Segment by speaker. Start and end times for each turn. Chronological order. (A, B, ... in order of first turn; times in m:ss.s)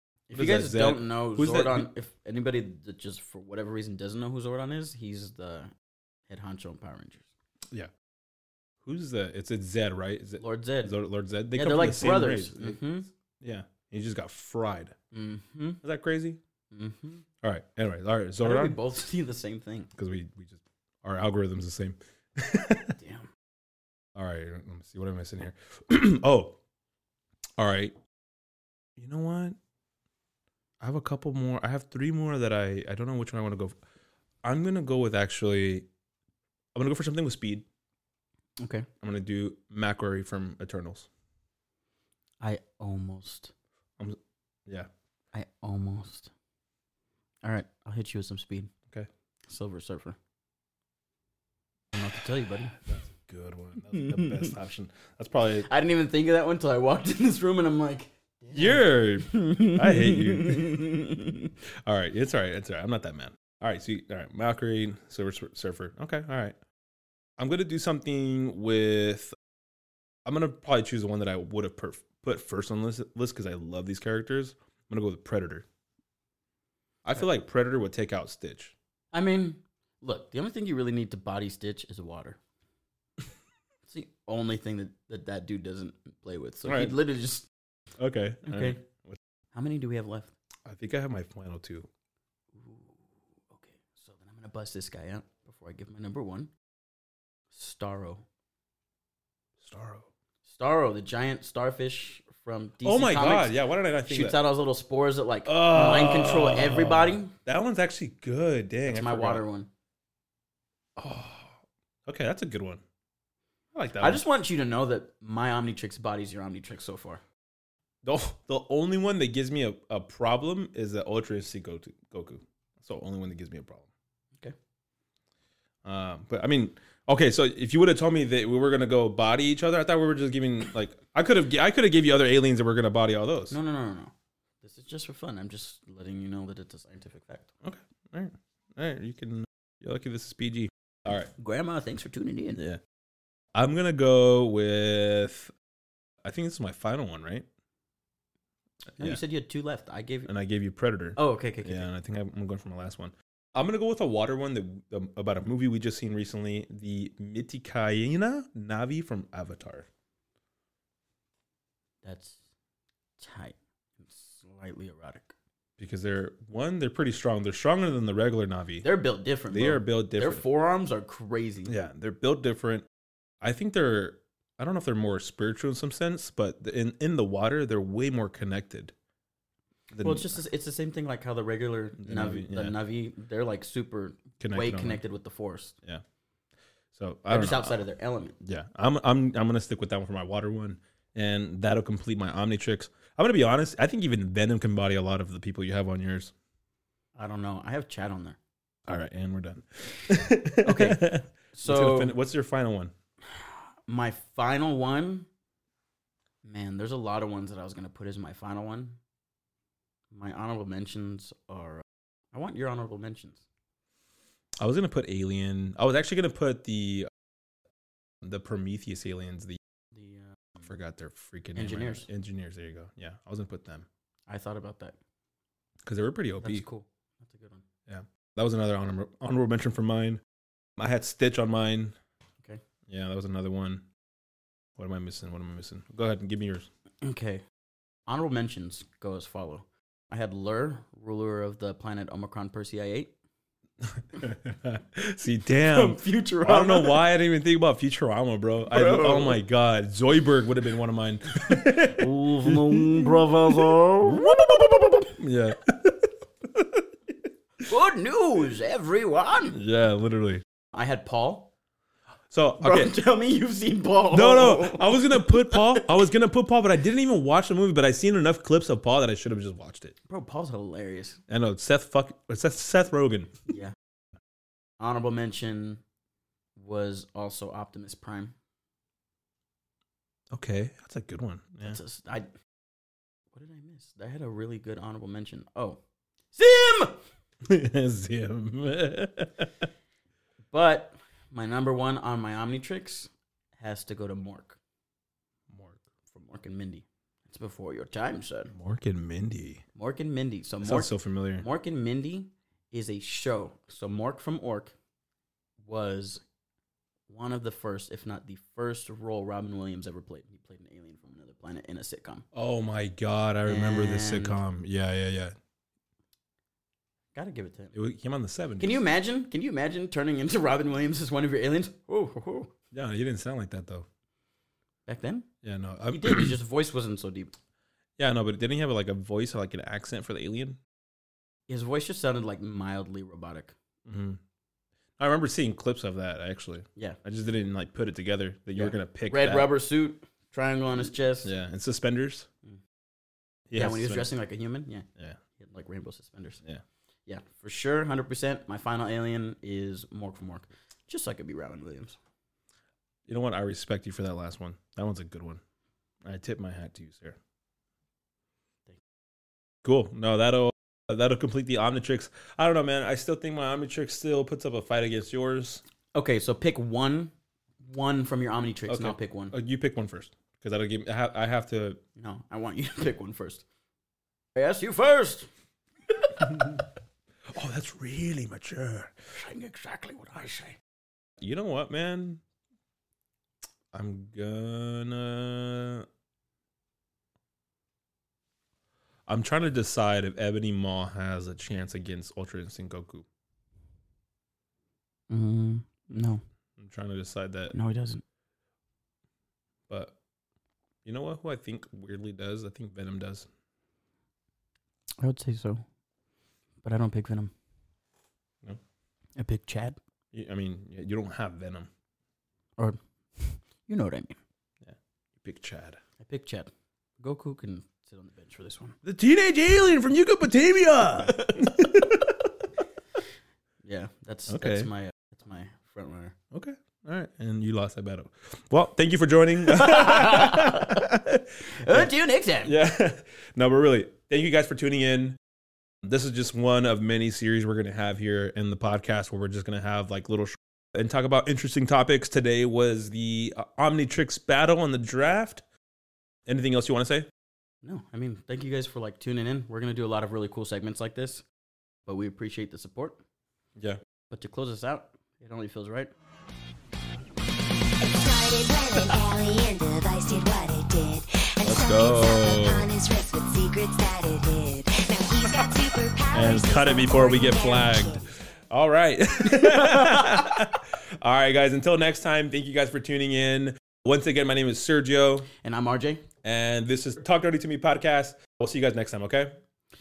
0:00.3-0:05.7 A
0:00.3-0:01.9 B
0:06.3-0:07.3 A
0:08.8-0:12.8 B
0:10.4-0:10.9 A
0:11.5-0:13.1 A
0:13.4-0:14.9 B
0:15.1-0:15.8 A
0:15.8-0:16.4 B
0:16.7-0:17.2 A
0:17.4-0:18.8 B
0:18.4-0:19.9 A
0:19.9-0:23.0 B
0:23.0-0:23.3 A
0:24.2-0:26.6 B
0:27.6-0:28.0 B
0:29.0-0:29.6 B
0:30.8-0:33.8 B
0:34.4-0:35.9 B
0:36.8-0:37.7 B
0:38.6-0:38.9 A
0:39.0-0:41.1 B
0:42.4-0:43.5 A
0:44.0-0:44.9 B
0:45.3-0:46.3 A
0:47.4-0:48.7 A
0:49.5-0:50.2 A
0:51.9-0:52.8 A
0:52.8-0:55.7 B
0:53.9-0:54.6 A
0:55.6-1:01.6 A
0:58.5-1:01.0 B
1:01.9-1:06.6 B
1:07.4-1:09.3 B
1:10.2-1:15.6 B
1:17.0-1:18.7 B
1:19.1-1:22.4 A
1:23.9-1:27.5 A
1:26.7-1:27.0 B
1:28.0-1:29.2 B
1:28.5-1:28.8 A
1:29.5-1:30.3 A
1:30.7-1:31.9 B
1:32.6-1:36.5 A
1:37.5-1:38.2 A
1:39.6-1:40.1 B
1:40.5-1:47.3 A
1:42.8-1:44.4 B
1:45.5-1:49.4 B
1:48.9-1:49.7 A
1:51.0-1:52.8 B
1:53.7-1:54.2 B
1:54.0-1:57.2 A
1:58.0-2:03.9 B
2:05.8-2:13.6 B
2:13.5-2:17.5 A
2:17.6-2:21.3 B
2:21.4-2:22.6 A
2:23.6-2:25.5 B
2:26.2-2:27.4 B
2:29.0-2:30.3 A
2:30.3-2:39.9 B
2:31.2-2:31.9 A
2:42.0-2:42.4 A
2:43.2-2:45.3 A
2:45.8-2:48.9 B
2:48.8-2:51.7 A
2:49.5-2:50.4 B
2:51.7-2:52.9 B
2:53.4-2:58.9 B
2:59.9-3:00.4 B
3:00.0-3:05.8 A
3:02.0-3:02.7 B
3:04.4-3:05.0 B
3:06.9-3:07.8 B
3:07.3-3:08.4 A
3:08.4-3:16.3 B
3:17.2-3:18.4 A
3:18.9-3:22.9 B
3:20.6-3:22.2 A
3:23.4-3:25.3 A
3:26.4-3:29.0 A
3:30.1-3:33.4 A
3:34.6-3:37.1 B
3:38.2-3:39.6 B
3:39.9-3:40.6 A
3:40.6-3:43.9 B
3:41.6-3:42.1 A
3:44.3-3:45.0 A
3:45.8-3:46.6 B
3:46.4-3:47.6 A
3:47.9-3:50.2 B
3:50.8-3:52.0 B
3:52.9-3:53.8 B
3:54.8-3:56.7 B
3:57.0-3:57.4 A
3:58.1-4:03.1 A
4:03.8-4:13.2 B
4:05.6-4:07.1 A
4:08.7-4:09.4 A
4:11.6-4:15.1 A
4:13.7-4:16.8 B
4:17.7-4:19.6 A
4:19.5-4:20.4 B
4:20.7-4:21.5 A
4:22.3-4:22.9 B
4:22.6-4:25.8 A
4:24.1-4:30.0 B
4:30.1-4:31.2 A
4:31.3-4:33.4 B
4:33.5-4:33.8 A
4:34.8-4:35.8 A
4:36.6-4:38.3 A
4:40.3-4:41.8 B
4:41.6-4:42.3 A
4:43.3-4:45.8 A
4:46.3-4:47.0 A
4:47.5-4:49.7 B
4:50.5-4:54.6 A
4:55.5-4:55.8 B
4:56.1-4:58.5 A
4:58.5-4:59.6 B
4:59.8-5:04.7 A
5:00.6-5:01.4 B
5:05.6-5:06.2 A
5:07.1-5:12.2 A
5:12.3-5:15.4 B
5:13.5-5:14.4 A
5:17.1-5:17.8 A
5:17.7-5:18.8 B
5:18.6-5:22.5 A
5:22.7-5:23.9 B
5:24.9-5:25.3 A
5:25.4-5:26.4 B
5:25.9-5:27.3 A
5:28.0-5:30.6 B
5:31.5-5:33.6 A
5:33.9-5:34.2 B
5:35.0-5:39.5 B
5:38.6-5:41.3 A
5:41.2-5:42.3 B
5:43.5-5:44.1 B
5:43.6-5:44.8 A
5:45.4-5:46.4 A
5:47.1-5:52.0 A
5:53.1-5:55.4 B
5:56.0-5:57.2 B
5:59.6-6:05.6 B
6:05.9-6:07.1 A
6:07.6-6:09.3 A
6:08.7-6:11.8 B
6:12.0-6:13.4 A
6:14.4-6:15.3 A
6:16.0-6:16.6 A
6:17.3-6:18.9 B
6:19.1-6:20.6 A
6:21.2-6:22.2 B
6:23.7-6:25.9 B
6:29.1-6:33.1 B
6:35.1-6:36.2 A
6:36.6-6:37.6 B
6:37.5-6:38.0 A
6:39.7-6:40.0 B
6:40.8-6:43.3 B
6:45.0-6:45.6 A
6:46.6-6:47.3 A
6:49.2-6:49.8 A
6:50.1-6:51.7 B
6:52.6-6:54.2 A
6:54.6-6:55.8 B
6:56.0-6:58.8 A
6:58.8-7:02.2 B
7:01.0-7:01.9 A
7:03.6-7:06.2 A
7:04.3-7:04.7 B
7:06.3-7:11.9 B
7:09.5-7:10.8 A
7:11.6-7:12.5 A
7:12.4-7:15.2 B
7:15.8-7:25.4 B
7:26.3-7:27.1 B
7:27.6-7:31.2 A
7:31.9-7:33.0 A
7:34.1-7:35.9 A
7:37.8-7:48.1 C
7:41.4-7:42.7 B
7:46.1-7:55.3 B
7:49.4-7:50.5 A
7:55.4-7:56.0 A
7:56.2-7:59.4 B